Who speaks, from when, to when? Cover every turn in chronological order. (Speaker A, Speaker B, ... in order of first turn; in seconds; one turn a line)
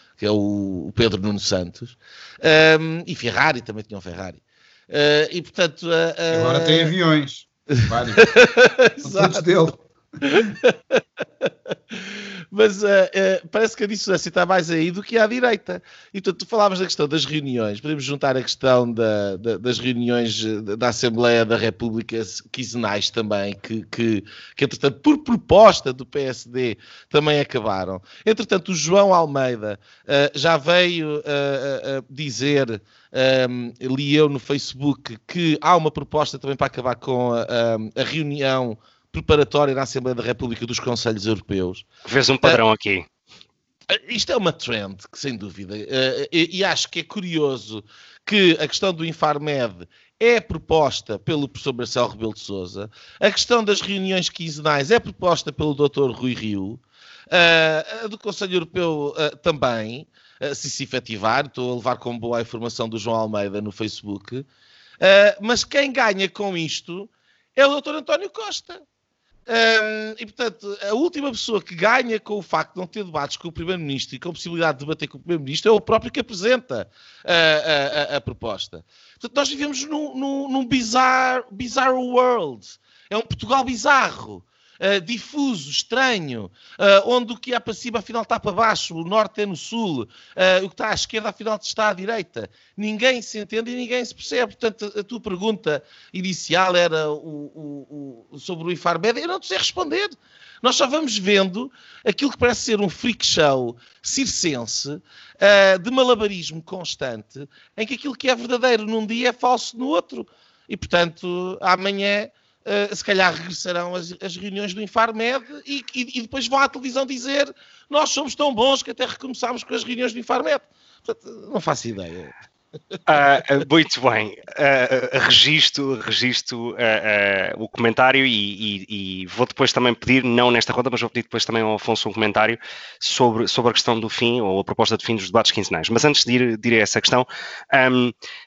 Speaker A: 0.2-6.9
Speaker B: 6.3-8.3
Speaker A: 7.8-9.4
Speaker B: 9.0-9.8
Speaker A: 10.2-41.8
Speaker C: 42.0-43.1
Speaker A: 43.9-64.5
Speaker A: 65.0-68.8
Speaker A: 69.5-122.3
Speaker A: 122.9-123.2
Speaker C: 123.1-138.1